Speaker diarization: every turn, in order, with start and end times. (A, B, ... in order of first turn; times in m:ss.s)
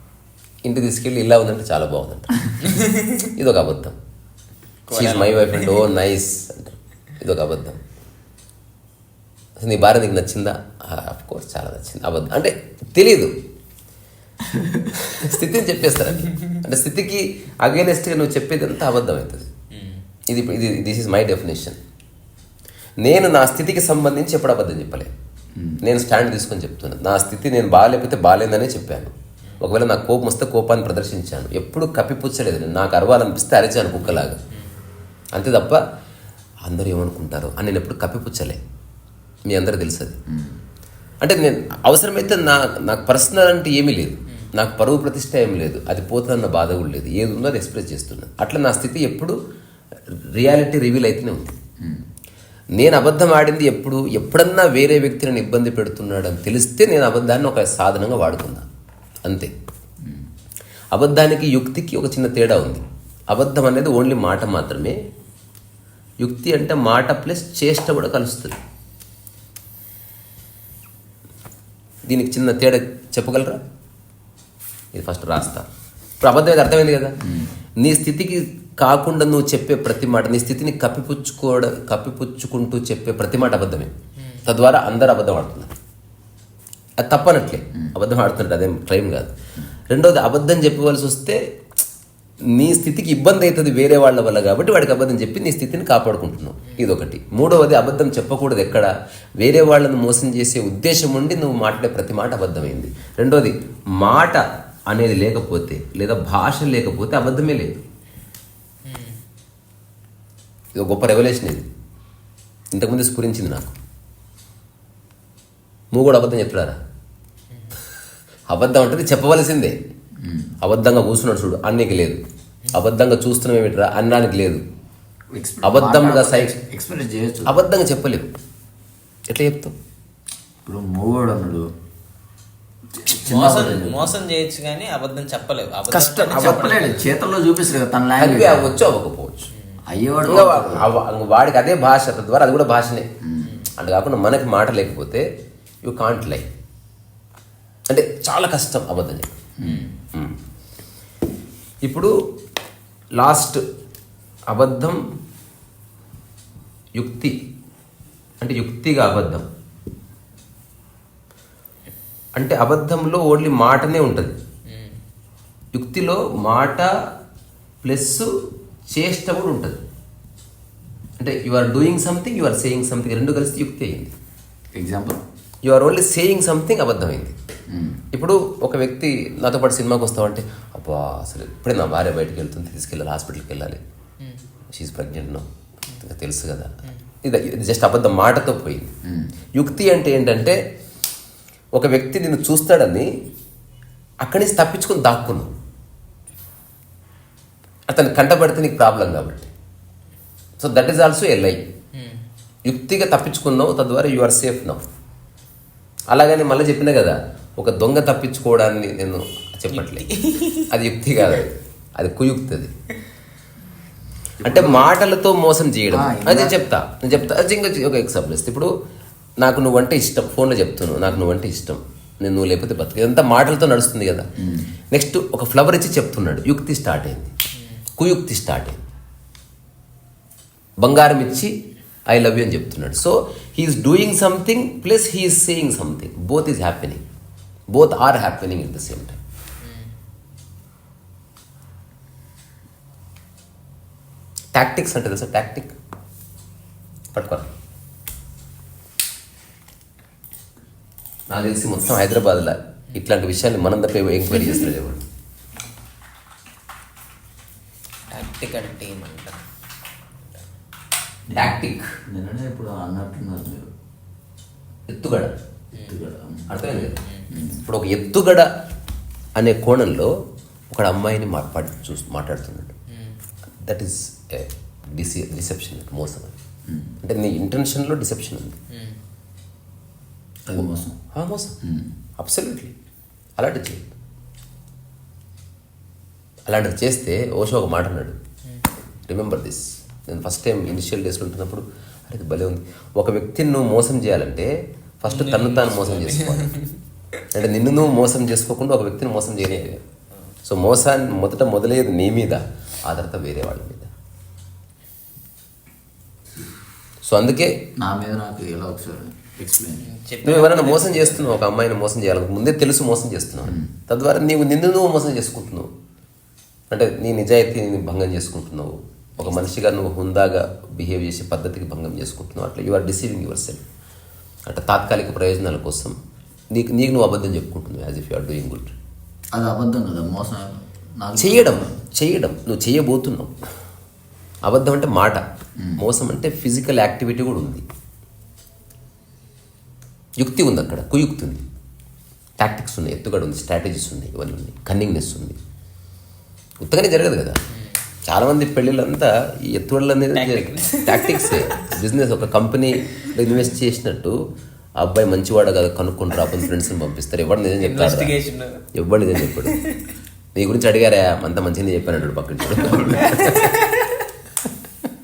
0:00.6-0:02.7 A
0:02.7-0:03.2 B
0:03.2-0:04.0 A
0:04.9-0:05.8 B
0:04.9-0:07.8 A
0:09.6-0:13.4 A
0:14.5-0:14.8 C
0:14.9-0:19.5 A
0:19.7-0:20.0 B
0:20.3-0:21.8 A
0:23.0-0:25.1 A
0:25.6-0:25.8 C
0:25.8-0:34.4 A
0:35.3-0:35.8 A
0:36.6-0:38.6 A
0:39.4-0:40.2 A
0:40.3-0:40.6 C
0:41.2-0:49.4 A
0:50.3-0:51.5 A
0:52.7-0:58.6 A
0:59.2-0:59.5 A
1:00.0-1:00.3 C
1:00.9-1:05.0 A
1:06.2-1:08.6 A
1:12.0-1:13.6 A
1:14.9-1:15.6 A
1:16.2-1:17.2 A
1:17.2-1:17.5 C
1:17.8-1:23.9 A
1:24.4-1:25.7 A
1:27.0-1:29.3 A
1:29.9-1:31.4 A
1:32.4-1:47.8 A
1:48.8-1:49.2 B
1:50.7-1:51.7 A
1:52.7-1:53.7 A
1:55.9-1:56.8 A
1:58.5-1:59.8 A
2:00.2-2:00.5 C
2:00.6-2:02.2 A
2:02.7-2:04.6 A
2:05.3-2:07.6 C
2:05.6-2:06.5 A
2:07.4-2:08.3 A
2:09.3-2:09.7 A
2:10.6-2:11.7 C
2:12.9-2:14.1 C
2:13.2-2:17.0 B
2:15.9-2:16.7 A
2:16.3-2:18.8 C
2:18.2-2:19.5 A
2:19.9-2:20.9 C
2:20.2-2:23.1 A
2:23.2-2:23.5 C
2:23.8-2:25.2 A
2:25.8-2:26.4 A
2:27.9-2:29.3 A
2:29.6-2:29.9 C
2:31.8-2:32.2 A
2:33.2-2:33.6 A
2:34.5-2:35.0 A
2:36.9-2:37.3 A
2:38.4-2:39.5 A
2:42.4-2:44.3 A
2:45.7-2:47.0 A
2:47.8-2:48.3 A
2:48.9-2:49.8 A
2:51.2-2:54.1 A
2:54.7-2:55.2 C
2:55.6-2:57.4 A
2:57.7-2:58.0 C
2:58.1-3:03.8 A
3:04.7-3:05.5 A
3:06.0-3:08.9 A
3:09.0-3:09.3 C
3:09.5-3:10.6 A
3:11.7-3:13.1 A
3:14.2-3:15.5 A
3:17.9-3:19.5 A
3:20.6-3:21.6 A
3:21.9-3:22.2 B
3:22.6-3:24.8 A
3:26.1-3:30.2 A
3:29.8-3:30.7 B
3:30.7-3:32.7 A
3:34.4-3:34.9 C
3:34.4-3:38.7 A
3:35.9-3:36.6 C
3:39.4-3:44.3 A
3:44.4-3:44.7 C
3:44.9-3:47.3 A
3:48.0-3:48.8 A
3:50.8-3:57.0 A
3:57.7-3:59.2 A
4:04.5-4:05.7 A
4:07.1-4:07.5 A
4:11.3-4:15.0 A
4:18.1-4:19.4 B
4:21.3-4:23.7 C
4:21.3-4:21.9 A
4:24.9-4:25.3 A
4:25.7-4:26.6 C
4:26.5-4:27.0 A
4:27.0-4:27.3 B
4:27.3-4:27.6 C
4:27.6-4:28.5 A
4:29.4-4:30.1 A
4:30.7-4:32.7 A
4:32.9-4:33.2 B
4:33.6-4:36.3 A
4:36.7-4:37.0 C
4:37.0-4:38.6 A
4:38.7-4:39.0 B
4:40.5-4:41.0 C
4:40.5-4:41.6 A
4:41.6-4:41.9 C
4:42.2-4:42.7 A
4:43.4-4:43.9 A
4:46.5-4:48.2 A
4:49.1-4:56.5 A
4:55.1-4:56.8 B
4:57.3-4:59.8 A
5:00.4-5:03.9 A
5:07.0-5:07.6 A
5:07.8-5:09.8 C
5:09.8-5:11.4 B
5:10.2-5:15.7 A
5:16.7-5:23.6 A
5:24.4-5:26.0 A
5:26.5-5:28.7 A
5:29.3-5:31.8 C
5:31.2-5:33.4 A
5:34.4-5:35.2 A
5:35.8-5:37.6 A
5:40.2-5:41.4 A
5:42.4-5:45.4 A
5:46.6-5:47.4 A
5:48.0-5:54.2 A
5:50.1-5:51.6 B
5:54.8-5:58.2 A
5:57.6-5:58.6 B
5:58.7-5:59.6 A
5:59.2-5:59.8 B
6:00.3-6:03.6 A
6:03.0-6:03.9 B